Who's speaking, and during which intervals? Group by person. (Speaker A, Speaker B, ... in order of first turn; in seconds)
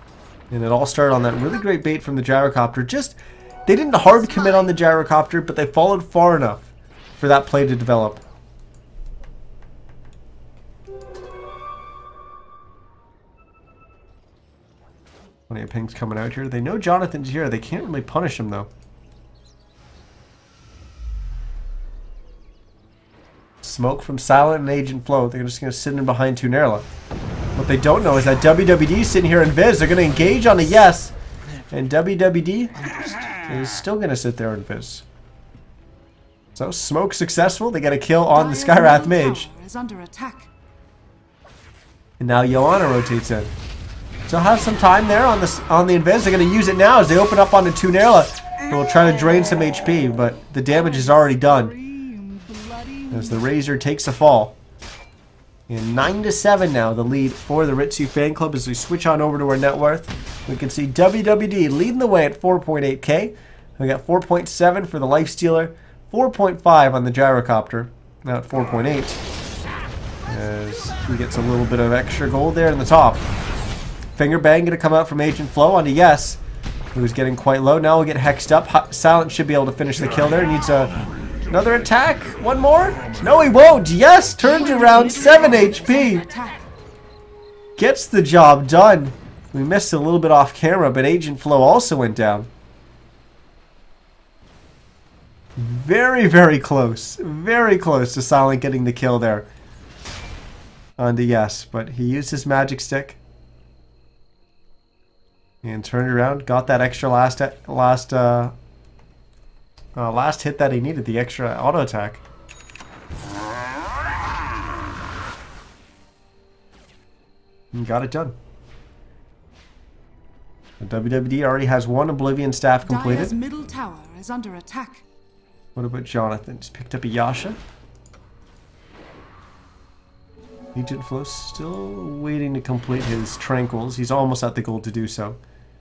Speaker A: 0.5-8.2, 15.5-18.7, 23.6-26.8, 27.5-31.1, 31.7-35.0, 36.5-39.5, 42.2-43.5, 44.3-51.8, 53.1-54.6, 55.7-69.2, 70.3-73.2, 74.1-76.4, 76.9-80.9, 81.5-86.3, 87.8-92.5, 95.5-99.5, 101.0-103.2, 105.6-108.5, 110.0-112.2, 117.7-118.3, 120.8-123.3, 125.7-127.6, 130.7-135.4
Speaker B: 4.1-4.7, 38.3-40.5, 84.4-86.6, 122.8-125.0